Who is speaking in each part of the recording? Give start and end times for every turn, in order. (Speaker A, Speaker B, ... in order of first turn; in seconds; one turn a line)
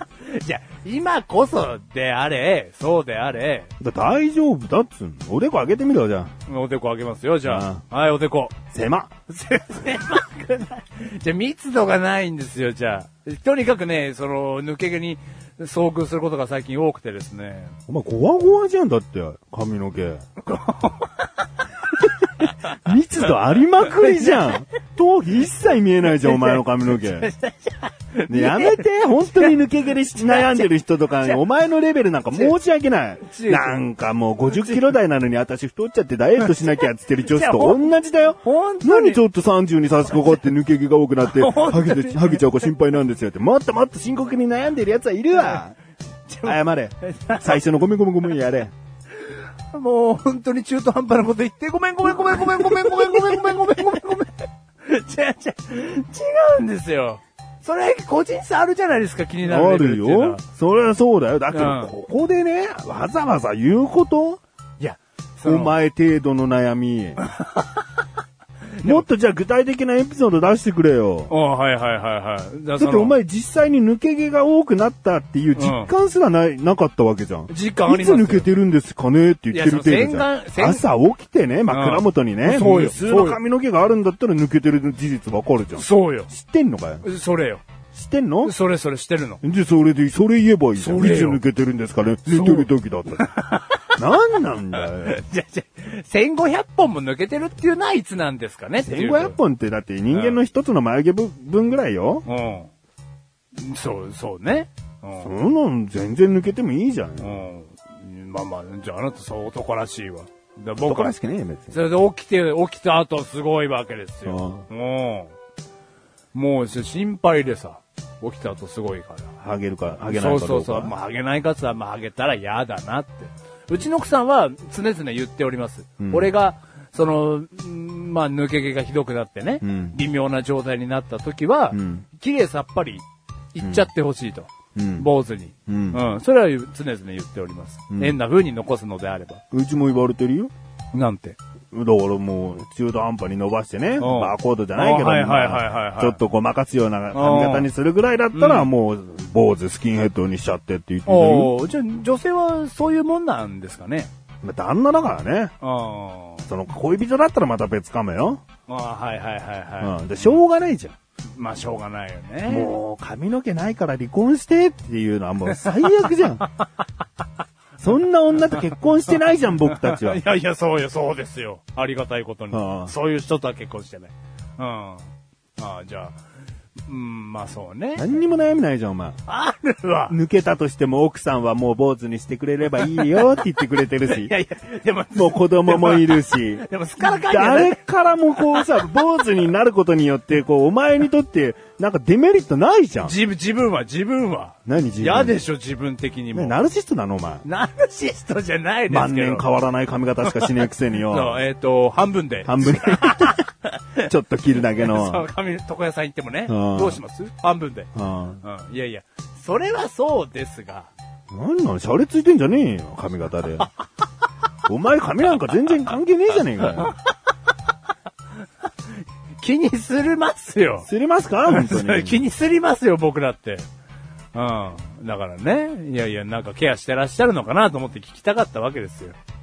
Speaker A: 0.3-3.7
Speaker B: 3.8-6.3
Speaker A: 6.5-8.6
Speaker B: 7.5-7.8
Speaker B: 8.7-9.1
Speaker A: 9.3-17.8
Speaker B: 17.9-20.2
Speaker A: 20.4-22.1
Speaker B: 22.4-27.3
Speaker A: 24.0-24.6
Speaker A: 26.2-29.5
Speaker B: 28.3-45.8
Speaker A: 30.2-30.7
Speaker A: 32.3-32.6
Speaker A: 33.2-33.8
Speaker A: 36.4-36.7
Speaker A: 37.3-37.9
Speaker A: 38.4-39.2
Speaker A: 41.2-42.4
Speaker A: 46.3-47.6
Speaker B: 46.4-48.7
Speaker A: 49.2-60.4
Speaker B: 52.1-54.0
Speaker B: 59.4-64.4
Speaker A: 61.5-61.9
Speaker A: 64.8-65.8
Speaker B: 65.5-67.2
Speaker A: 67.2-67.8
Speaker A: 68.8-69.1
Speaker B: 68.8-71.3
Speaker A: 71.3-73.2
Speaker B: 72.8-87.1
Speaker A: 75.6-75.9
Speaker A: 77.5-78.5
Speaker A: 79.5-80.8
Speaker A: 81.7-83.4
Speaker A: 85.8-86.3
Speaker A: 87.0-87.6
Speaker B: 87.9-88.5
Speaker A: 88.4-89.4
Speaker B: 89.4-93.3
Speaker A: 90.8-91.4
Speaker A: 92.3-93.8
Speaker B: 94.0-95.2
Speaker A: 94.8-99.4
Speaker B: 98.8-102.3
Speaker A: 100.1-100.4
Speaker A: 102.3-102.7
Speaker A: 103.6-105.3
Speaker B: 105.2-107.5
Speaker A: 107.2-111.1
Speaker B: 110.8-111.8
Speaker A: 111.7-115.3
Speaker B: 114.2-114.7
Speaker A: 116.3-119.3
Speaker B: 119.4-120.9
Speaker A: 120.1-139.4
Speaker B: 126.0-126.3
Speaker B: 129.6-130.0
Speaker B: 131.7-132.1
Speaker B: 133.6-133.9
Speaker B: 134.8-135.1
Speaker B: 135.7-136.0
Speaker B: 137.9-138.2
Speaker B: 139.5-140.5
Speaker A: 140.9-141.4
Speaker B: 141.7-151.5
Speaker A: 144.0-146.2
Speaker A: 147.1-147.7
Speaker A: 148.3-148.7
Speaker A: 151.1-154.1
Speaker B: 154.4-155.5
Speaker A: 155.6-156.5
Speaker B: 156.5-158.4
Speaker A: 158.7-160.4
Speaker B: 159.8-160.9
Speaker A: 161.4-162.7
Speaker B: 162.5-166.5
Speaker A: 165.5-166.7
Speaker B: 167.8-170.2
Speaker A: 169.6-175.1
Speaker B: 172.5-172.9
Speaker A: 175.6-176.2
Speaker A: 176.9-178.1
Speaker B: 178.0-179.2
Speaker A: 179.3-180.2
Speaker B: 180.1-184.3
Speaker A: 182.8-183.2
Speaker A: 184.0-188.8
Speaker B: 185.1-193.2
Speaker A: 193.0-196.6
Speaker B: 194.7-195.4
Speaker B: 196.3-197.4
Speaker A: 197.4-199.5
Speaker B: 198.9-201.4
Speaker A: 200.2-204.0
Speaker B: 202.4-203.4
Speaker B: 204.0-205.3
Speaker A: 204.7-207.9
Speaker B: 206.5-207.0
Speaker B: 207.9-208.4
Speaker A: 208.4-210.9
Speaker B: 211.3-213.7
Speaker B: 214.7-216.9
Speaker A: 216.6-217.0
Speaker A: 219.4-220.9
Speaker B: 220.8-222.2
Speaker A: 221.5-223.7
Speaker A: 224.3-229.2